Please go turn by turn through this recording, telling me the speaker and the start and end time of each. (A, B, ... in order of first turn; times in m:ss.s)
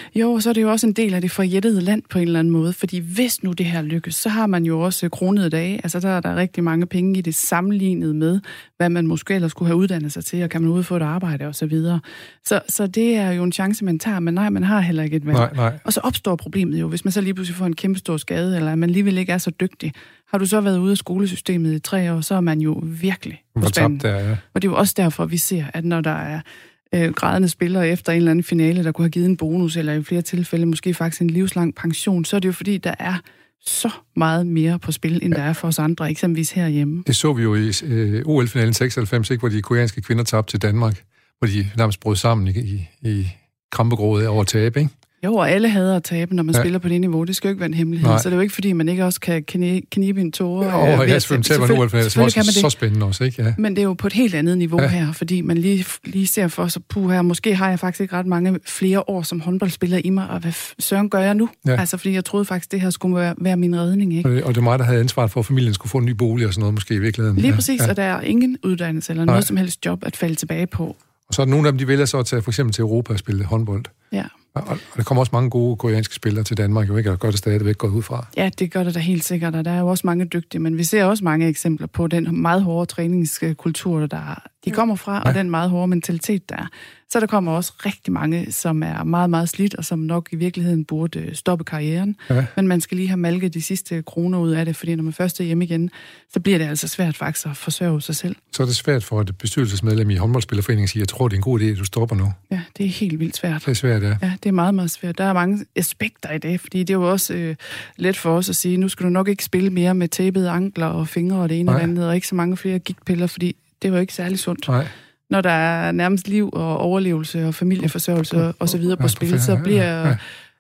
0:00.1-0:37.0 A
0:15.3-0:15.8 B
0:23.6-0:24.4 B
0:37.1-0:44.9 B
0:45.2-0:52.7 A
0:48.0-0:48.3 B
0:50.6-0:53.6 B
0:53.6-1:04.3 A
1:04.2-1:07.9 B
1:07.4-1:11.0 A
1:11.3-1:13.9 B
1:14.5-1:18.3 B
1:18.3-1:38.4 A
1:38.5-1:42.4 B
1:42.5-1:54.7 A
1:43.7-1:44.2 B
1:55.3-2:00.2 A
1:59.0-2:00.2 B